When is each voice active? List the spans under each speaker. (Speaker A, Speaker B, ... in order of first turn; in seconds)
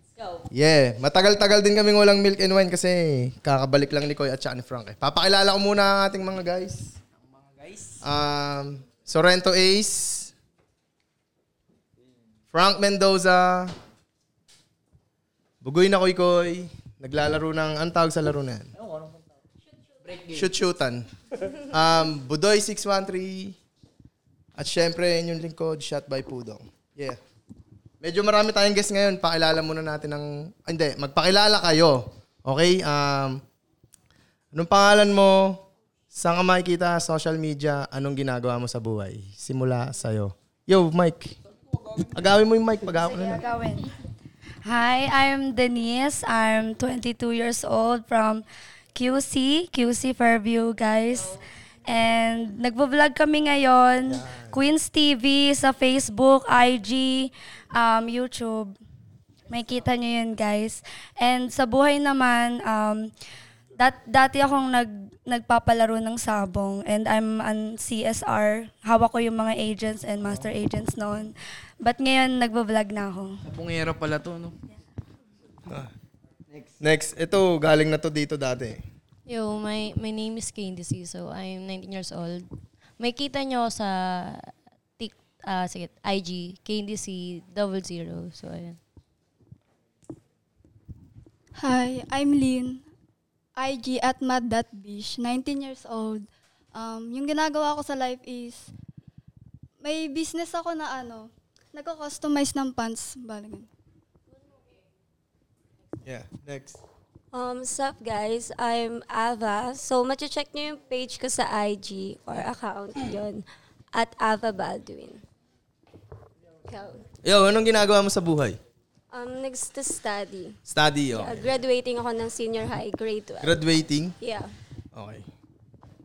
Speaker A: 0.5-6.9, 8.0-10.3, 12.5-13.7, 15.6-18.7, 20.3-21.0, 21.7-23.6, 24.6-27.2, 28.0-33.4, 34.5-35.6, 36.1-41.3, 42.1-43.4, 54.2-54.5, 76.8-78.8, 106.0-106.8, 117.2-118.6, 120.7-121.4, 123.4-124.1, 124.9-125.2
Speaker B: 7.4-8.0, 20.0-20.4, 73.4-74.5
Speaker C: 43.1-43.9, 44.6-48.4, 48.9-51.3, 51.9-58.7, 59.5-63.1, 63.8-73.4
Speaker D: 79.3-82.4, 83.0-88.8
Speaker E: 91.6-92.8, 93.6-98.7, 99.8-103.7
Speaker F: 107.3-115.2, 116.7-117.0, 119.1-120.5, 121.1-123.6, 124.2-124.5